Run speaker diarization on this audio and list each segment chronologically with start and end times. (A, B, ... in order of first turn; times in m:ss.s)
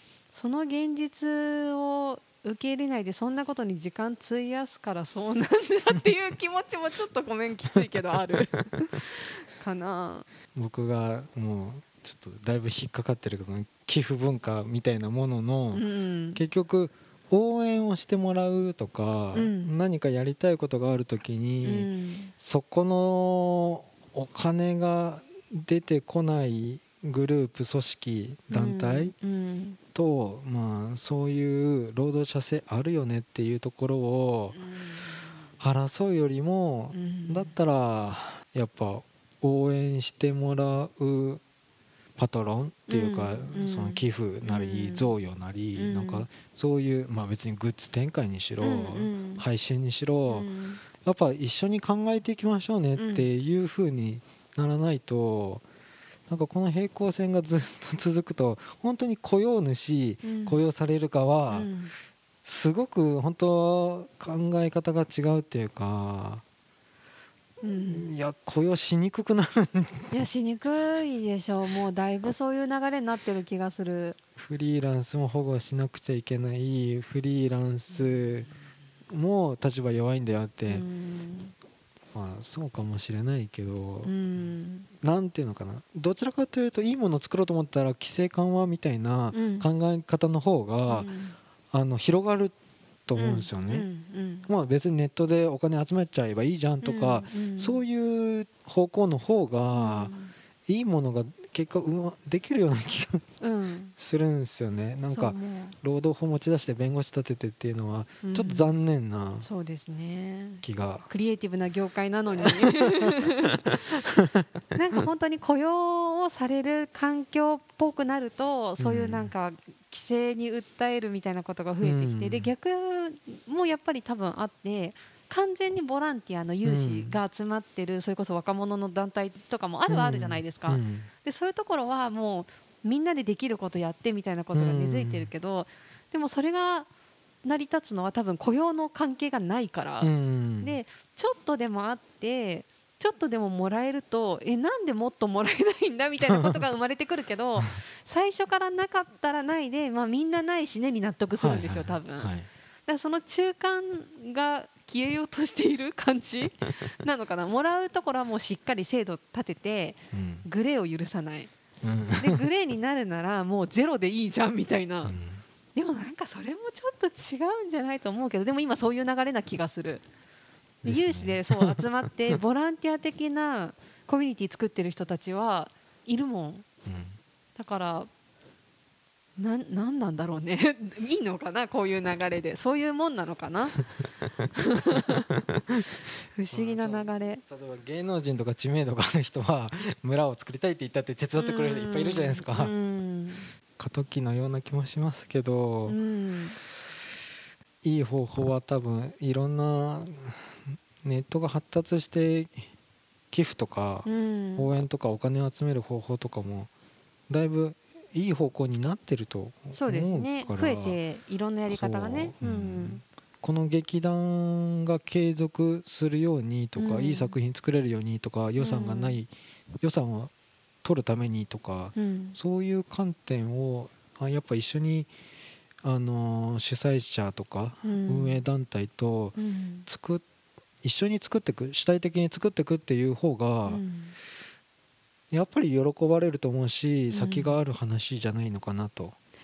0:00.3-0:10.2 A
0:10.5-0:15.8 B
0:15.7-0:16.4 A
0:16.3-0:21.9 B
0:19.3-0:19.7 A
0:21.6-0:22.3 A
0:22.4-0:29.1 B
0:28.5-0:29.8 A
0:29.9-0:34.6 B
0:34.5-0:35.4 A
0:35.6-0:41.4 B
0:36.9-0:37.5 A
0:42.2-0:50.5 B
0:42.9-0:45.1 A
0:45.8-0:46.3 A
0:48.6-0:49.4 A
0:50.3-0:50.8 A
0:51.0-0:55.6 B
0:53.0-0:53.3 A
0:56.3-1:01.7 B
1:00.2-1:00.6 A
1:01.5-1:01.9 A
1:02.4-1:06.4 B
1:07.6-1:08.1 A
1:07.8-1:10.2 B
1:10.1-1:14.2 A
1:14.4-1:18.5 B
1:19.1-1:20.8 B
1:20.7-1:21.5 A
1:22.1-1:24.2 B
1:24.0-1:24.9 A
1:25.0-1:31.1 B
1:29.3-1:29.7 A
1:30.9-1:31.4 A
1:31.7-1:32.5 B
1:33.1-1:33.9 B
1:33.2-1:34.5 A
1:34.5-1:40.1 B
1:36.8-1:37.8 A
1:39.7-1:40.3 A
1:40.7-1:43.2 B
1:43.4-1:43.9 A
1:44.0-1:49.5 B
1:45.1-1:45.8 A
1:48.2-1:48.7 A
1:49.4-1:53.8 A
1:50.6-1:51.1 B
1:54.7-2:16.9 A
1:58.8-1:59.3 B
2:01.8-2:02.5 B
2:06.6-2:07.2 B
2:09.9-2:11.1 B
2:14.5-2:15.3 B
2:17.4-2:32.3 A
2:20.0-2:20.8 B
2:26.2-2:26.6 B
2:31.3-2:32.5 B
2:32.9-2:41.5 A
2:40.1-2:40.4 B
2:41.8-2:42.5 B
2:42.2-2:45.1 A
2:45.0-2:45.4 B
2:45.7-2:50.0 A
2:50.8-2:51.8 B
2:50.8-2:56.6 A
2:56.8-2:57.2 B
2:57.6-2:58.1 A
2:59.4-3:03.8 A
3:04.5-3:05.2 A
3:06.3-3:07.4 A
3:06.5-3:12.7 B
3:11.4-3:13.5 A
3:13.8-3:16.0 B
3:15.9-3:16.6 A
3:17.8-3:22.6 B
3:23.3-3:26.7 B
3:24.0-3:24.7 A
3:27.3-3:31.0 B
3:29.7-3:33.0 A
3:31.7-3:39.3 B
3:36.8-3:37.4 A
3:38.6-3:39.2 A
3:39.8-3:40.3 B
3:40.8-3:45.1 B
3:41.9-3:42.4 A
3:45.8-3:50.2 B
3:47.8-3:48.4 A
3:49.4-3:49.9 A
3:50.8-3:53.8 B
3:53.6-3:54.1 A
3:55.3-3:59.2 B
3:57.1-3:57.6 A